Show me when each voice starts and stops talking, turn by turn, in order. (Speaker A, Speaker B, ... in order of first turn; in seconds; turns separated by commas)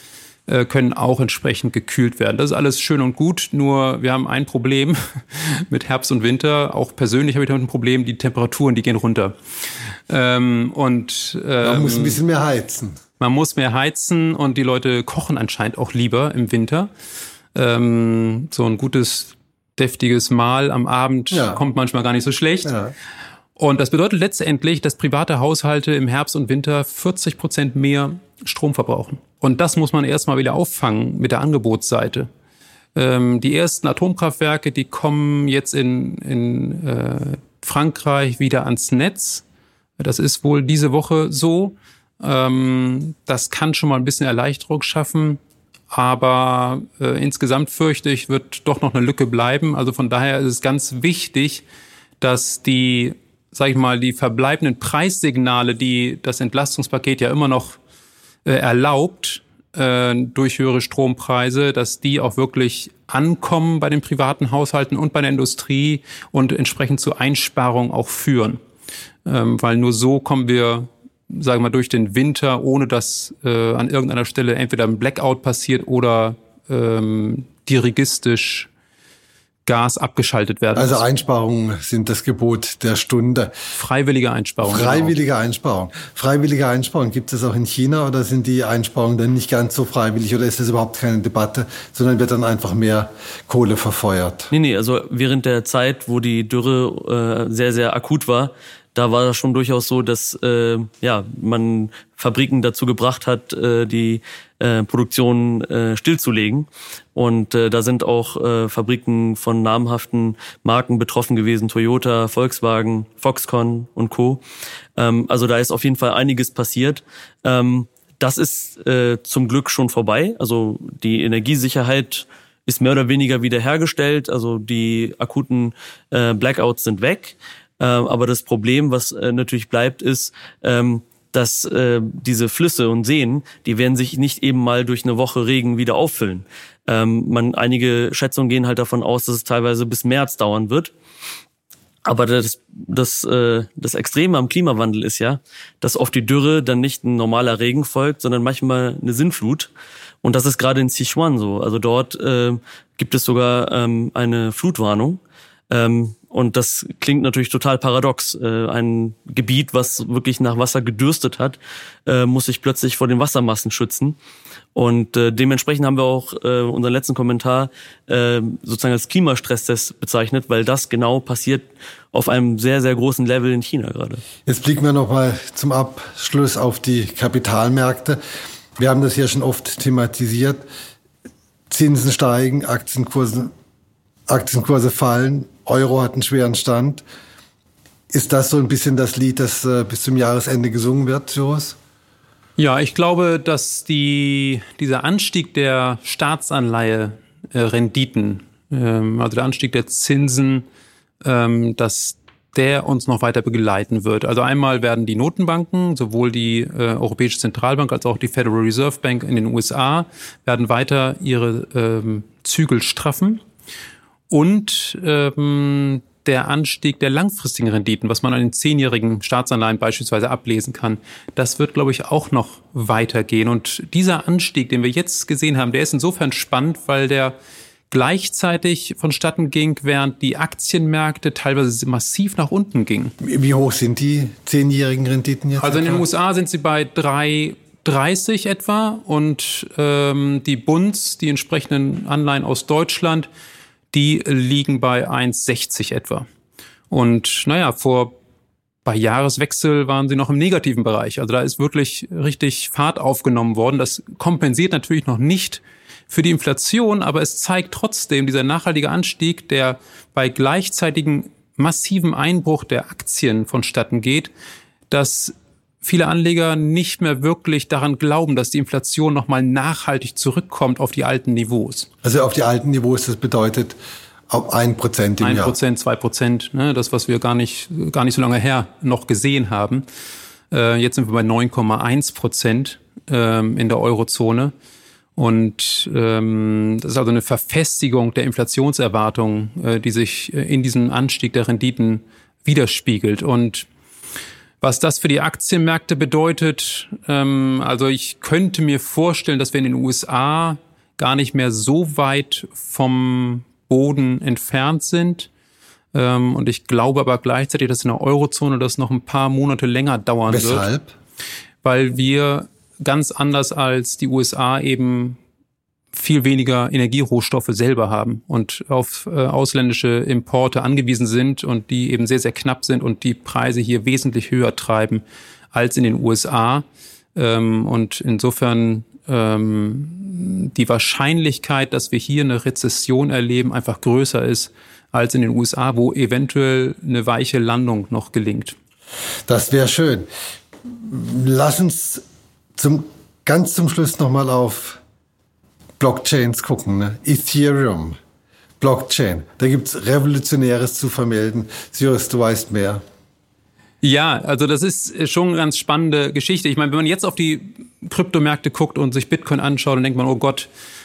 Speaker A: 0.5-9.3, Speaker A: 10.1-12.2, Speaker B: 11.6-13.0, Speaker A: 13.2-16.9, Speaker A: 17.5-22.7, Speaker B: 21.3-21.6, Speaker B: 22.6-22.9, Speaker A: 23.6-32.3, Speaker A: 33.0-39.4, Speaker A: 40.0-45.4, Speaker A: 45.9-51.6, Speaker A: 52.2-57.8, Speaker A: 58.5-68.6, Speaker A: 69.2-78.7, Speaker A: 79.7-81.0, Speaker B: 80.8-83.5, Speaker A: 83.7-85.2, Speaker B: 84.6-94.5, Speaker C: 94.5-114.4, Speaker C: 115.0-140.9, Speaker C: 142.1-149.7, Speaker C: 150.2-164.2, Speaker C: 164.8-174.2, Speaker B: 174.5-178.2, Speaker B: 178.8-180.6, Speaker B: 181.7-183.5, Speaker B: 184.3-187.0, Speaker B: 188.1-191.8, Speaker A: 192.6-200.7, Speaker A: 201.2-213.4, Speaker A: 214.3-227.4, Speaker A: 227.9-233.1, Speaker B: 233.2-236.1, Speaker A: 235.6-243.3, Speaker A: 243.9-246.3, Speaker A: 246.9-248.1, Speaker A: 248.8-264.3, Speaker A: 264.9-271.9, Speaker B: 272.0-273.8, Speaker B: 274.3-275.6, Speaker A: 275.2-279.9, Speaker A: 280.5-284.5, Speaker A: 285.2-293.7, Speaker A: 294.6-305.3, Speaker A: 305.9-310.7, Speaker B: 310.3-310.9, Speaker A: 311.6-315.2, Speaker A: 315.9-338.6, Speaker B: 339.3-340.1, Speaker B: 340.7-342.0, Speaker B: 342.6-344.8, Speaker B: 345.8-348.0, Speaker B: 348.6-352.8, Speaker A: 353.8-360.5